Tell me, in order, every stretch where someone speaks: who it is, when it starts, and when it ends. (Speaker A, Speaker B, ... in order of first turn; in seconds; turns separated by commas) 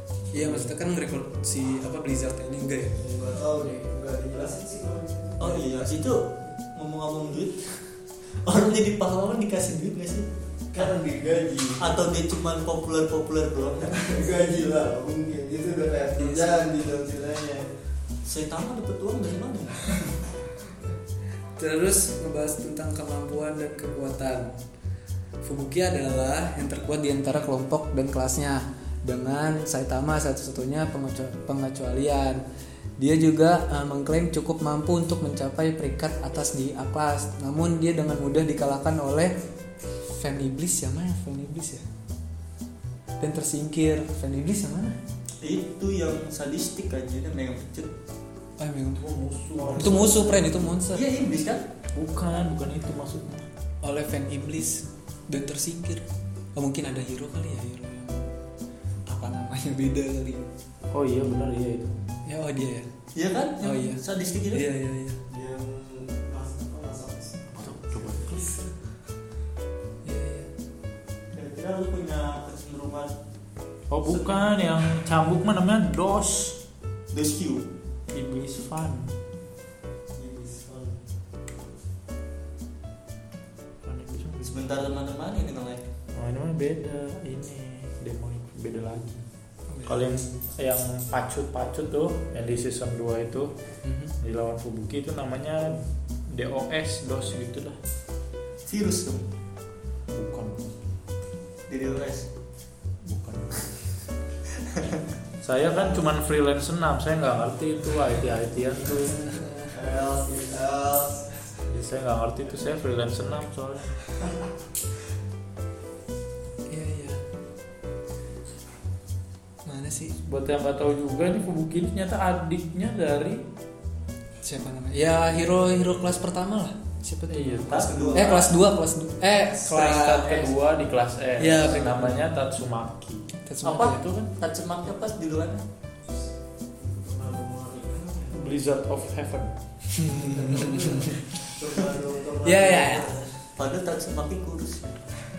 Speaker A: 0.3-3.0, Speaker B: 0.4-0.7, Speaker C: 3.0-5.7, Speaker D: 5.4-7.7, Speaker D: 8.4-10.9, Speaker C: 10.7-11.9, Speaker D: 11.8-14.1, Speaker C: 13.9-17.6, Speaker A: 16.2-16.6, Speaker D: 18.3-20.0, Speaker A: 21.6-24.6, Speaker A: 25.4-32.4, Speaker A: 33.0-39.4, Speaker A: 40.0-41.8, Speaker A: 43.2-45.0, Speaker D: 45.4-47.9, Speaker A: 48.6-49.0, Speaker B: 49.0-50.5, Speaker A: 49.8-51.0, Speaker D: 50.9-51.6, Speaker B: 51.9-53.5, Speaker A: 53.8-58.2, Speaker A: 59.1-60.5, Speaker B: 60.9-62.0, Speaker A: 62.3-62.9, Speaker D: 63.1-64.7, Speaker A: 63.6-65.2, Speaker C: 65.3-68.7, Speaker B: 67.5-68.5, Speaker A: 70.0-70.5, Speaker D: 71.3-73.1, Speaker B: 73.9-76.6, Speaker D: 77.1-77.7, Speaker B: 78.1-79.1, Speaker C: 80.2-81.0, Speaker B: 83.8-84.8, Speaker D: 84.4-85.8, Speaker B: 86.1-89.2, Speaker A: 89.7-90.1, Speaker B: 89.9-93.5, Speaker A: 93.8-94.1, Speaker B: 94.2-97.8, Speaker D: 98.7-99.3, Speaker B: 100.1-100.7, Speaker D: 101.7-102.3, Speaker B: 103.0-103.7, Speaker D: 104.6-105.0, Speaker B: 105.4-109.3, Speaker A: 109.2-109.7, Speaker C: 109.7-111.3, Speaker B: 111.7-113.9, Speaker A: 116.7-117.2, Speaker A: 119.7-120.2, Speaker B: 120.2-123.4, Speaker A: 124.4-130.5, Speaker B: 127.3-128.2, Speaker C: 127.7-128.4, Speaker D: 127.8-128.5, Speaker B: 129.6-133.2, Speaker A: 131.4-132.2, Speaker A: 133.5-134.0, Speaker D: 133.6-135.6, Speaker B: 133.8-134.3, Speaker C: 136.8-138.4, Speaker B: 138.3-139.5, Speaker A: 139.9-141.2, Speaker C: 140.1-143.3, Speaker A: 142.4-143.1, Speaker D: 143.6-145.0